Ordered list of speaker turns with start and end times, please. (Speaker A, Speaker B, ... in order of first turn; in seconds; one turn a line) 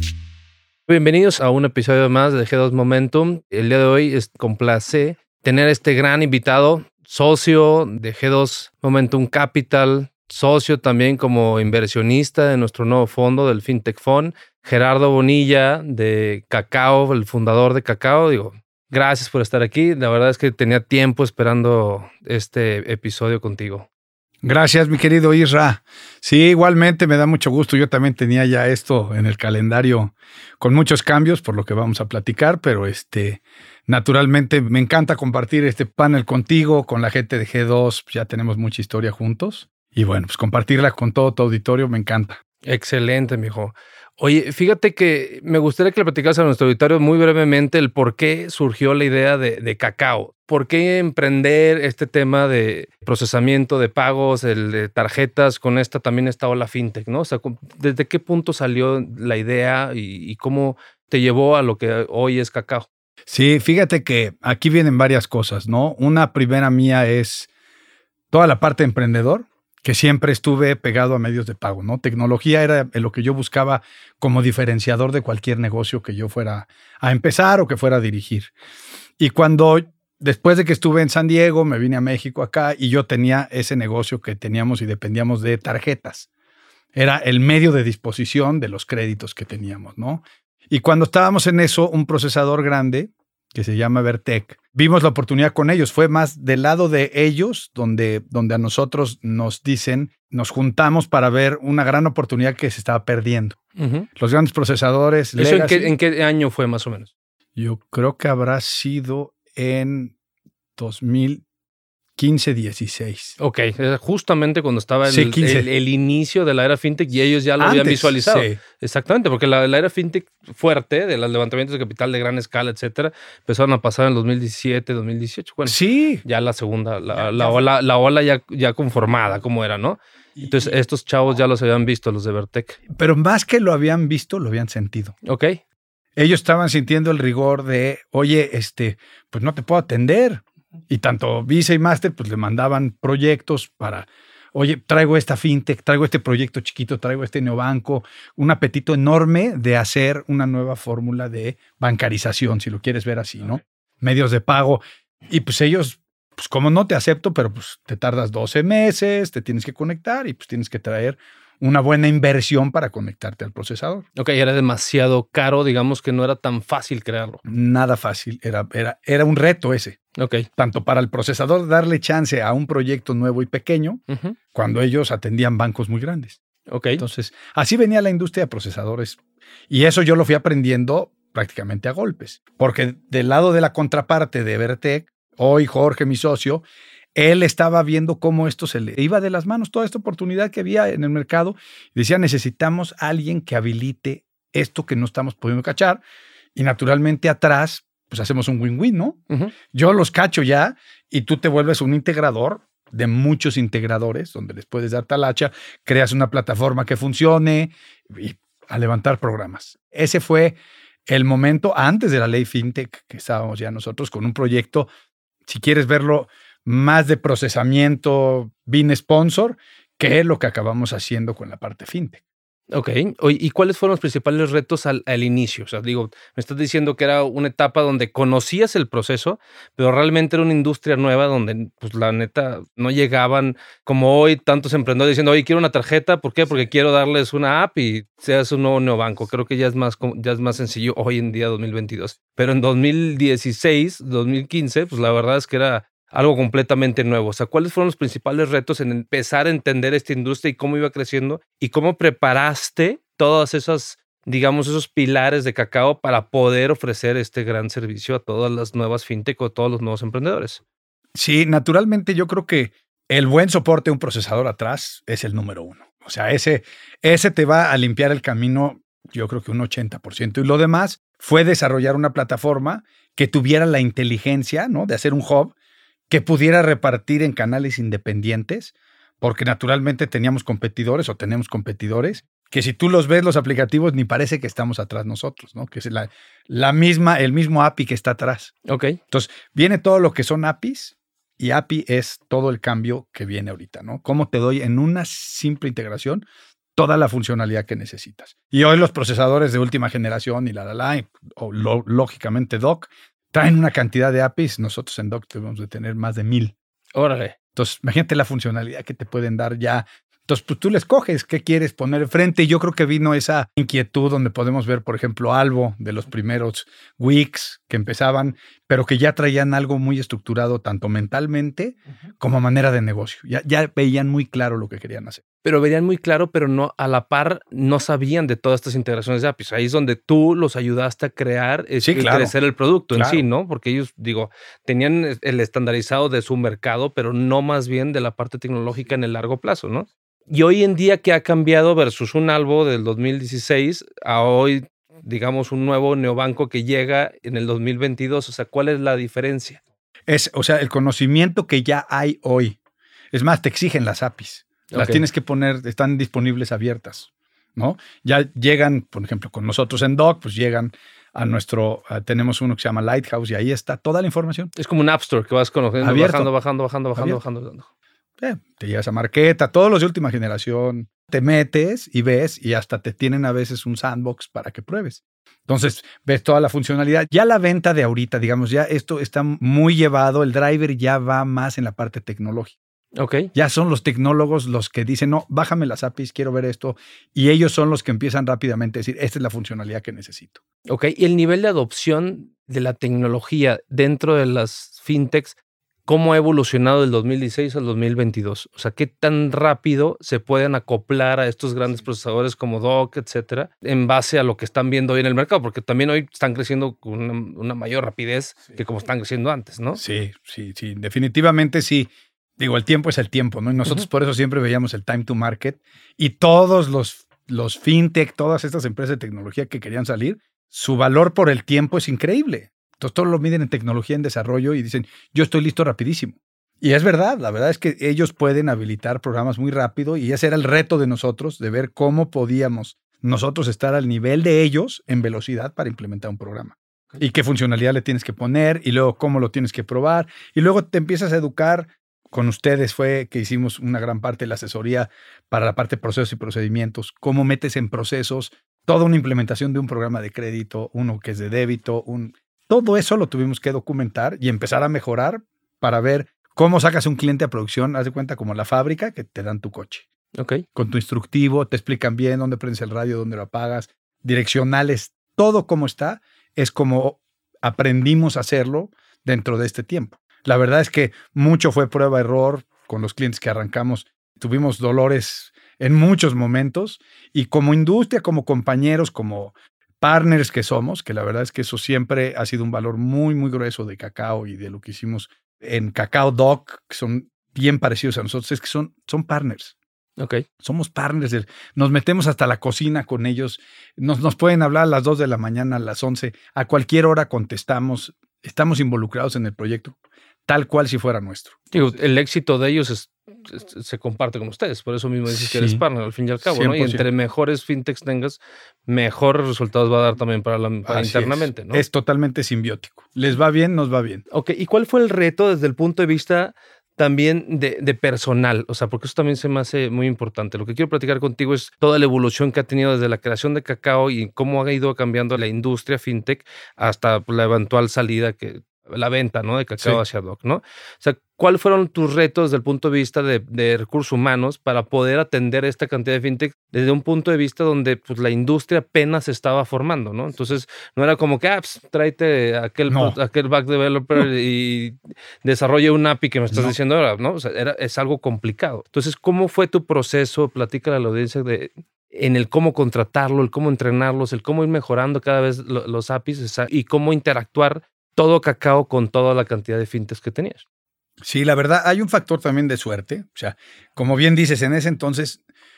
Speaker A: 0.9-23.9
Speaker B: 24.4-42.4
Speaker A: 42.6-62.9
Speaker B: 63.3-67.5
Speaker B: 68.3-78.5
Speaker B: 79.2-86.3
Speaker B: 86.9-103.6
Speaker A: 103.8-104.1
Speaker B: 104.2-105.9
Speaker A: 105.3-107.1
Speaker B: 107.5-110.1
Speaker B: 110.8-111.4
Speaker B: 112.2-113.4
Speaker A: 113.4-132.8
Speaker B: 115.0-115.7
Speaker B: 117.6-118.6
Speaker B: 125.7-126.2
Speaker B: 127.1-127.6
Speaker B: 130.4-130.8
Speaker B: 132.9-135.1
Speaker A: 135.2-135.6
Speaker B: 136.2-164.1
Speaker A: 164.2-167.4
Speaker B: 167.4-170.0
Speaker A: 170.2-170.5
Speaker B: 170.6-174.0
Speaker A: 174.1-174.4
Speaker B: 174.5-176.4
Speaker A: 176.7-177.0
Speaker B: 177.0-179.2
Speaker B: 179.7-186.6
Speaker B: 187.1-196.0
Speaker B: 196.6-199.2
Speaker B: 199.7-210.6
Speaker B: 211.1-214.9
Speaker B: 215.4-222.2
Speaker A: 222.7-260.6
Speaker B: 261.1-275.6
Speaker B: 276.1-288.5
Speaker A: 288.6-289.0
Speaker B: 289.1-306.5
Speaker A: 306.9-307.4
Speaker B: 307.6-325.2
Speaker A: 325.4-349.6
Speaker B: 331.8-332.3
Speaker B: 332.9-333.2
Speaker B: 350.1-352.6
Speaker B: 353.1-364.5
Speaker A: 354.7-355.0
Speaker A: 364.6-367.7
Speaker B: 365.8-366.3
Speaker B: 366.9-367.2
Speaker B: 368.2-382.6
Speaker A: 382.9-383.3
Speaker B: 383.3-390.4
Speaker A: 390.6-409.8
Speaker B: 409.8-459.9
Speaker A: 460.1-460.4
Speaker B: 460.5-489.5
Speaker A: 490.0-490.2
Speaker B: 490.4-499.8
Speaker B: 500.3-501.5
Speaker A: 501.5-511.6
Speaker B: 505.1-505.6
Speaker B: 506.2-506.9
Speaker B: 510.7-514.0
Speaker A: 514.1-560.4
Speaker B: 542.7-543.0
Speaker B: 546.3-546.6
Speaker B: 561.0-565.2